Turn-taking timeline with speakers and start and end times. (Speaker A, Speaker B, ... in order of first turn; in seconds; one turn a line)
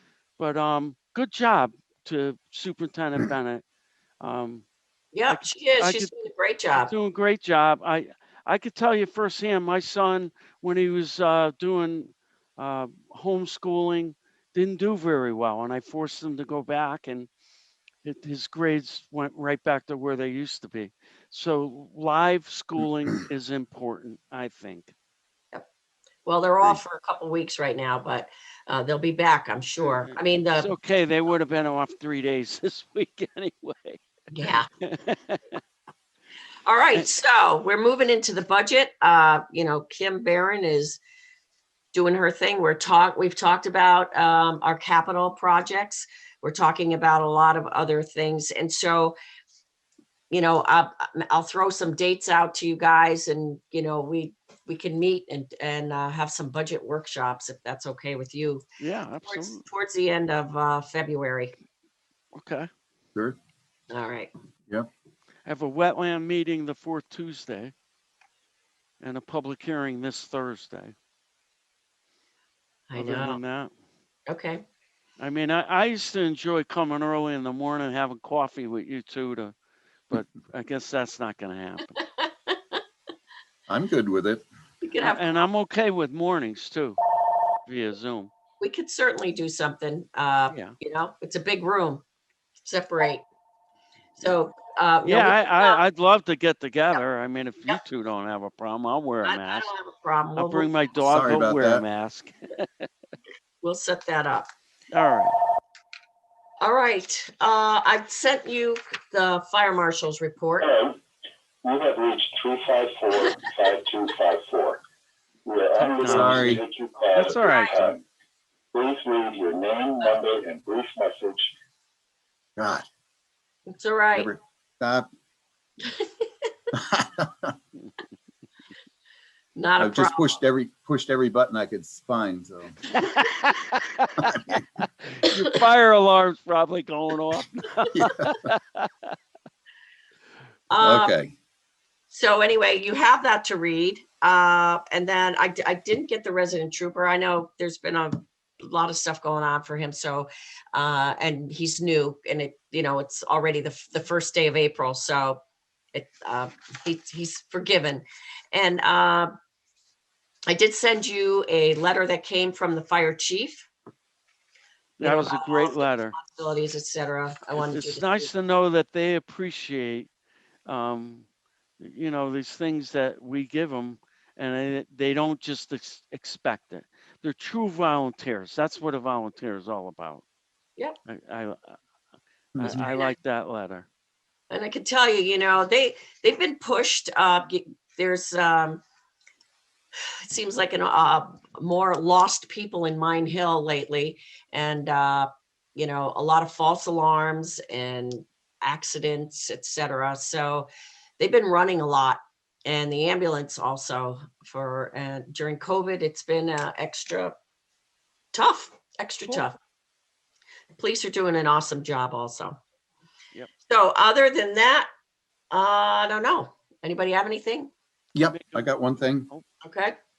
Speaker A: 0.4-3.6
Speaker A: 4.2-4.6
Speaker B: 5.1-6.9
Speaker A: 5.3-6.1
Speaker A: 6.7-17.3
Speaker A: 18.0-24.9
Speaker B: 26.2-30.7
Speaker A: 29.8-34.0
Speaker B: 34.3-34.7
Speaker A: 34.8-35.6
Speaker B: 36.6-41.0
Speaker B: 41.9-49.1
Speaker B: 50.3-58.6
Speaker A: 58.8-59.6
Speaker B: 59.3-61.5
Speaker A: 62.3-62.7
Speaker B: 63.9-64.3
Speaker A: 65.5-67.7
Speaker A: 69.0-70.9
Speaker B: 72.9-73.4
Speaker A: 73.0-73.7
Speaker B: 74.3-74.6
Speaker A: 75.2-79.5
Speaker A: 80.1-82.0
Speaker B: 82.0-82.8
Speaker C: 83.7-84.4
Speaker B: 84.8-85.4
Speaker A: 85.0-87.0
Speaker A: 87.7-88.3
Speaker B: 88.6-92.0
Speaker B: 92.6-93.2
Speaker B: 94.2-95.8
Speaker A: 95.0-99.7
Speaker B: 99.2-100.7
Speaker A: 100.3-102.9
Speaker C: 101.0-101.8
Speaker B: 103.6-104.5
Speaker A: 104.9-105.3
Speaker B: 106.6-110.7
Speaker D: 110.6-111.0
Speaker D: 111.6-114.8
Speaker D: 115.5-118.0
Speaker A: 115.8-116.6
Speaker C: 116.0-116.6
Speaker A: 117.1-117.9
Speaker D: 118.7-121.5
Speaker C: 122.6-122.8
Speaker B: 123.7-124.3
Speaker C: 124.2-125.1
Speaker C: 126.7-127.5
Speaker B: 129.6-130.3
Speaker C: 129.8-132.8
Speaker A: 132.9-139.1
Speaker C: 134.2-134.6
Speaker C: 137.9-138.3
Speaker B: 140.7-141.1
Speaker C: 140.8-141.3
Speaker B: 142.1-155.4
Speaker B: 155.9-159.3
Speaker B: 160.5-163.7
Speaker A: 165.0-166.2
Speaker B: 165.0-168.3
Speaker A: 167.6-170.1
Speaker A: 170.7-171.2
Speaker A: 171.8-180.2
Speaker A: 181.1-181.8
Speaker A: 182.6-183.9
Speaker B: 182.7-183.1
Speaker B: 184.5-188.8
Speaker B: 190.2-207.3
Speaker B: 208.3-209.5
Speaker B: 210.8-212.6
Speaker B: 213.7-214.9
Speaker B: 215.5-217.7
Speaker C: 218.1-219.3
Speaker A: 218.2-219.4
Speaker B: 219.6-219.9